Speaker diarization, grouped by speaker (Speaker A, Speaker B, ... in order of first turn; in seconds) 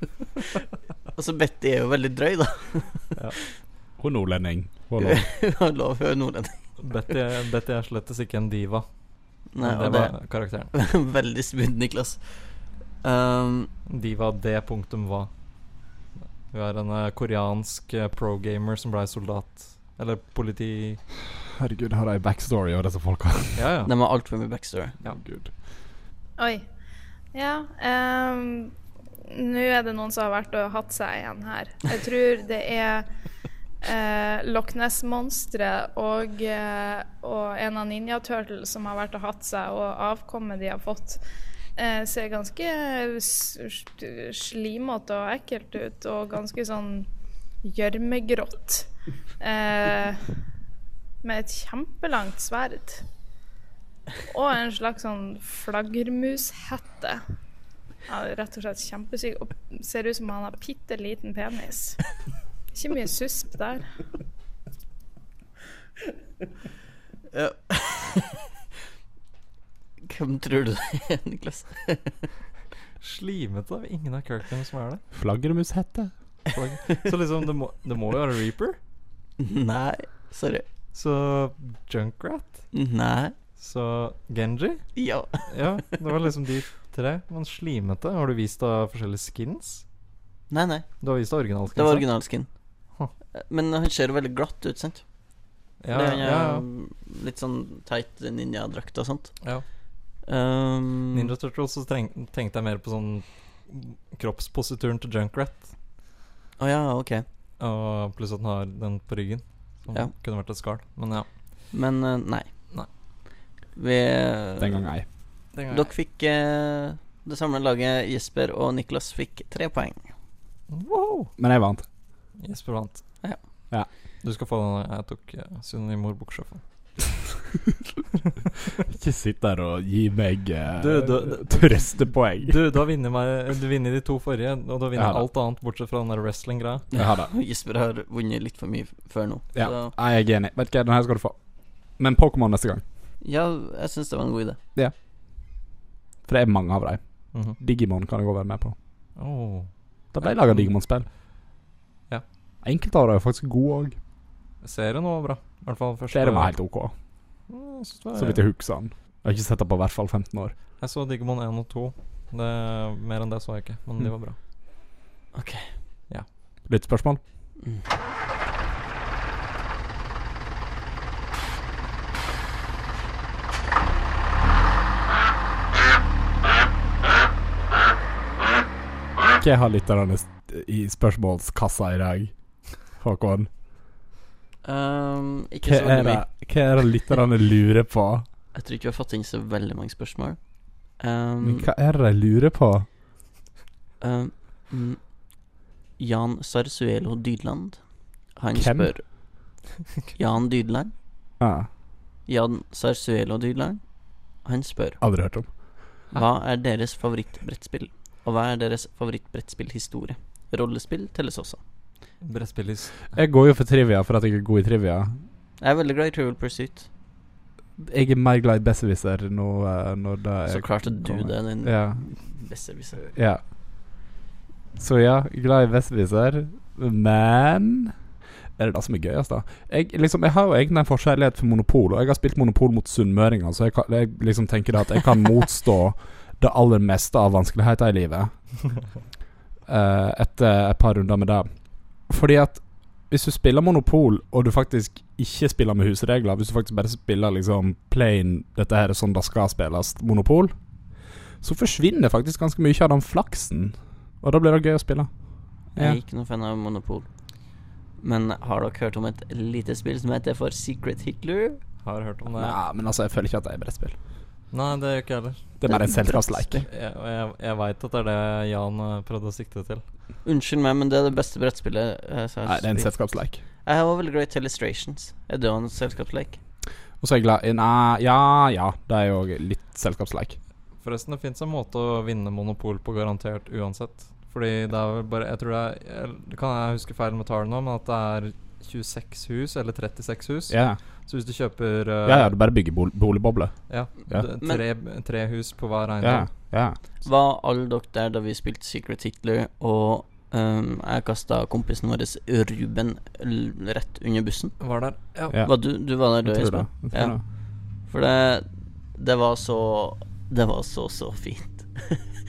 Speaker A: 1.1-3.2, 5.0-6.8, 9.5-13.7, 23.9-24.9, 67.3-68.4, 70.0-72.3, 79.4-80.7, 82.7-83.3, 85.0-85.7, 90.5-92.7, 93.3-95.3, 95.9-99.6, 100.2-101.3, 106.6-107.2, 111.7-112.5, 113.7-114.9, 115.7-120.1, 136.9-139.9, 143.2-144.6, 165.3-165.7, 184.6-186.3, 188.5-191.7, 194.0-195.2, 196.0-199.1, 200.2-200.9, 202.3-205.0, 206.1-211.6, 215.6-216.9, 220.5-223.0, 255.8-257.1, 258.0-261.6, 265.7-266.7, 270.2-273.0, 273.5-276.4, 294.4-294.6, 297.0-304.6, 305.4-312.1
Speaker B: 4.0-5.2, 21.6-23.7, 25.0-25.5, 75.1-76.1, 114.6-115.1, 121.4-121.9, 128.9-132.6, 134.9-135.3, 136.9-137.3, 139.5-142.8, 146.3-148.8, 150.1-151.1, 152.6-154.0, 156.1-156.9, 158.2-160.6, 166.7-167.2, 179.4-183.5, 185.6-188.2, 191.4-192.9, 198.6-198.9, 201.4-201.7, 205.0-205.6, 213.1-215.2, 217.8-222.2, 223.0-223.4, 224.8-227.9, 228.6-238.5, 239.7-250.6, 251.4-255.1, 255.7-256.0, 262.3-264.0, 265.6-266.6, 272.4-273.4, 277.0-280.4, 290.5-290.8, 292.1-294.3, 296.0-296.8, 305.3-307.2
Speaker C: 6.8-8.9, 9.5-10.7, 13.9-15.3, 16.5-21.0, 23.6-23.9, 73.0-75.0, 76.5-78.8, 80.9-82.7, 83.6-89.8, 91.0-93.1, 95.8-96.7, 101.1-105.7, 107.6-111.3, 115.5-115.9, 120.7-121.3, 122.4-123.6, 124.2-127.0, 130.8-136.9, 147.3-147.6, 149.2-150.8, 154.6-156.6, 157.5-158.5, 160.8-164.4, 212.2-213.1, 261.8-262.6, 264.5-265.5, 266.6-269.8, 280.8-292.4, 293.7-296.3, 304.6-305.4
Speaker D: 26.4-26.6, 27.3-28.7, 29.2-33.1, 33.8-41.2, 41.8-47.1, 47.6-48.9, 49.4-50.3, 51.2-53.0, 54.3-57.2, 58.1-62.0, 62.7-63.9